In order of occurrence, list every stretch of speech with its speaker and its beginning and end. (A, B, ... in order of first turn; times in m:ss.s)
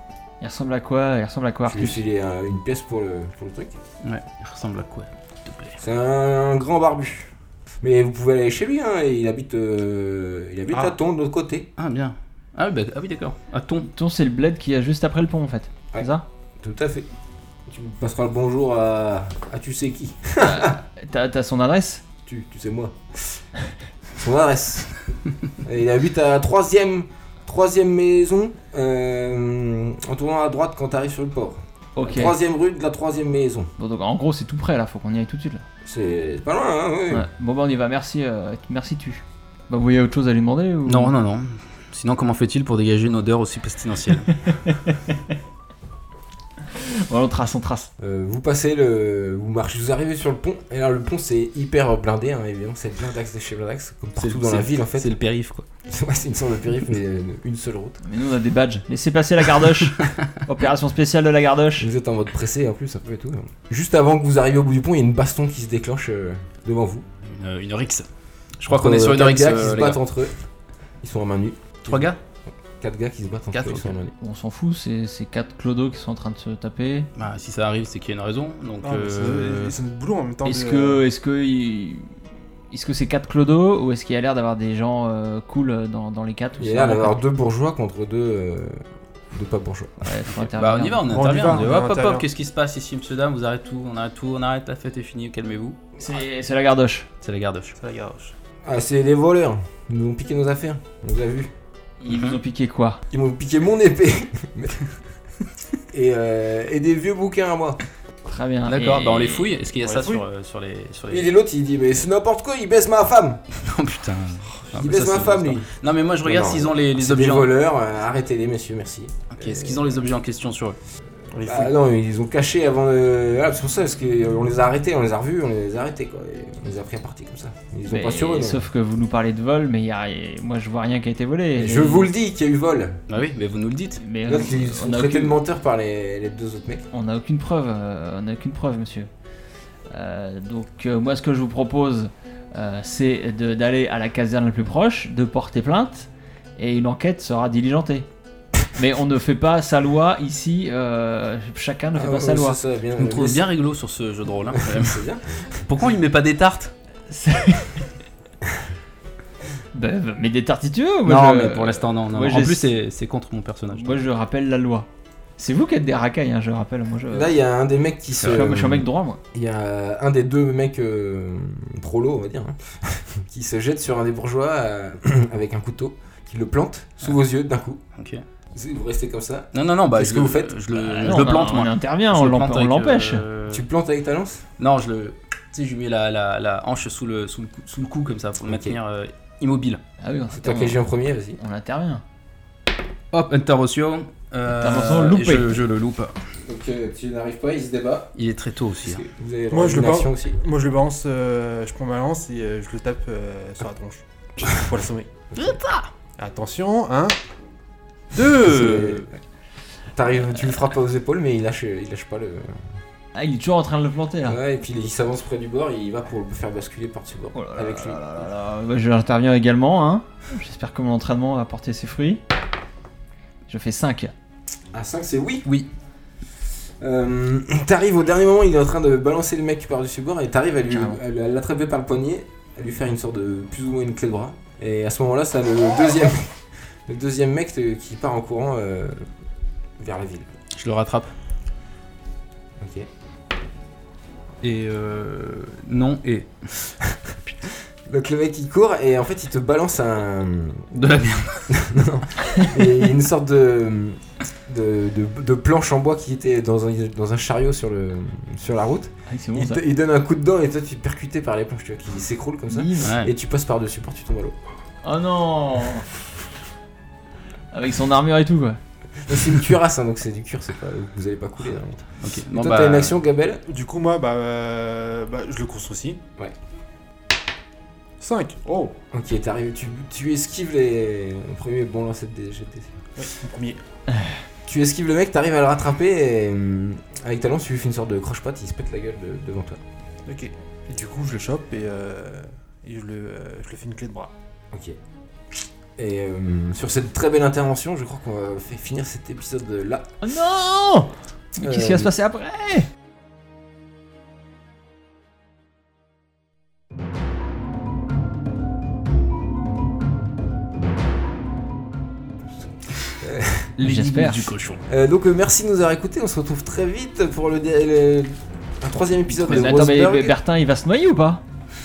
0:00.4-0:02.0 A
0:01.7-0:03.7 B
0:04.0-0:05.8 C
0:05.8-0:11.7 B
0:11.8-0:13.9 C
0:13.9-0:16.2 A
0:16.6-0:17.1 B
0:17.7-0:20.8 B
0:20.4-0:22.0 A
0:22.3-0:23.4 B
0:24.1-0:25.0 B
0:25.6-0:33.7 B
0:32.0-0:32.4 A
0:33.8-0:35.6 A
0:35.8-0:37.3 B
0:37.1-0:41.1 A
0:40.9-0:44.4 C
0:44.7-0:45.0 A
0:46.7-0:47.9 A
0:48.0-0:55.2 B
0:54.2-0:55.6 C
0:55.9-0:58.0 B
0:58.0-1:01.9 A
1:01.8-1:07.1 B
1:07.3-1:08.1 C
1:08.6-1:10.0 C
1:08.7-1:10.4 B
1:11.0-1:12.1 B
1:11.9-1:12.2 C
1:12.8-1:14.1 B
1:13.5-1:13.9 C
1:14.2-1:17.1 A
1:17.2-1:19.8 C
1:18.8-1:21.0 D
1:20.4-1:22.1 A
1:22.7-1:27.2 A
1:26.6-1:28.8 B
1:29.3-1:30.0 B
1:30.0-1:31.0 A
1:30.5-1:35.8 C
1:31.1-1:32.2 D
1:36.0-1:37.1 A
1:37.2-1:37.8 C
1:37.8-1:38.4 D
1:38.6-1:41.5 B
1:42.0-1:43.0 A
1:42.0-1:42.4 C
1:43.1-1:44.8 B
1:45.9-1:47.8 B
1:48.3-1:49.6 A
1:48.7-1:51.3 C
1:49.8-1:50.2 D
1:51.1-1:53.4 B
1:53.6-1:57.5 C
1:54.7-1:55.7 B
1:56.2-1:59.9 B
1:59.3-2:00.8 C
2:01.3-2:01.7 D
2:01.4-2:08.7 B
2:07.9-2:12.1 A
2:11.6-2:13.0 B
2:13.1-2:14.0 C
2:14.0-2:15.4 A
2:14.2-2:16.8 B
2:16.9-2:19.1 A
2:19.9-2:28.1 A
2:28.7-2:32.6 A
2:31.9-2:33.5 B
2:33.0-2:35.0 C
2:34.5-2:35.6 B
2:35.6-2:36.7 C
2:37.1-2:37.9 A
2:39.7-2:42.6 A
2:41.1-2:44.0 C
2:43.7-2:44.9 A
2:45.4-2:47.4 A
2:47.1-2:57.8 B
2:48.2-2:48.5 C
2:48.2-2:49.2 A
2:58.0-2:58.2 C
2:58.5-3:00.6 B
2:59.5-3:03.6 C
3:00.8-3:03.2 A
3:03.5-3:04.4 B
3:04.6-3:09.8 C
3:08.4-3:08.8 B
3:10.0-3:10.8 A
3:10.3-3:11.4 B
3:11.4-3:12.0 A
3:13.1-3:16.2 C
3:14.5-3:15.5 A
3:16.4-3:18.1 B
3:18.2-3:19.0 C
3:18.8-3:20.4 B
3:19.5-3:25.1 D
3:25.3-3:25.6 B
3:25.4-3:25.9 A
3:26.2-3:27.2 D
3:28.1-3:29.1 D
3:28.3-3:29.2 B
3:29.9-3:32.7 B
3:33.2-3:34.4 A
3:34.2-3:38.0 B
3:37.3-3:42.2 A
3:43.5-3:44.1 A
3:44.7-3:45.5 B
3:46.8-3:59.1 B
3:50.7-3:51.0 A
3:59.8-4:00.3 B
4:00.6-4:01.1 C
4:02.6-4:02.9 B
4:04.4-4:06.7 C
4:07.9-4:10.7 B
4:10.7-4:11.6 C
4:11.5-4:24.4 B
4:19.1-4:19.6 A
4:22.5-4:22.9 A
4:22.8-4:23.1 C
4:24.8-4:25.9 A
4:27.5-4:28.6 A
4:29.0-4:33.4 B
4:32.0-4:32.9 C
4:33.5-4:36.0 D
4:38.0-4:38.7 D
4:38.9-4:42.7 B
4:43.0-4:43.6 D
4:44.4-4:49.6 B
4:50.1-4:54.1 D
4:54.5-4:54.8 B
4:55.8-4:59.9 B
5:00.0-5:02.7 A
5:01.4-5:01.9 B
5:12.4-5:13.5 B
5:13.6-5:14.6 C
5:13.6-5:14.3 A
5:14.7-5:20.2 B
5:19.2-5:21.2 A
5:19.3-5:19.7 C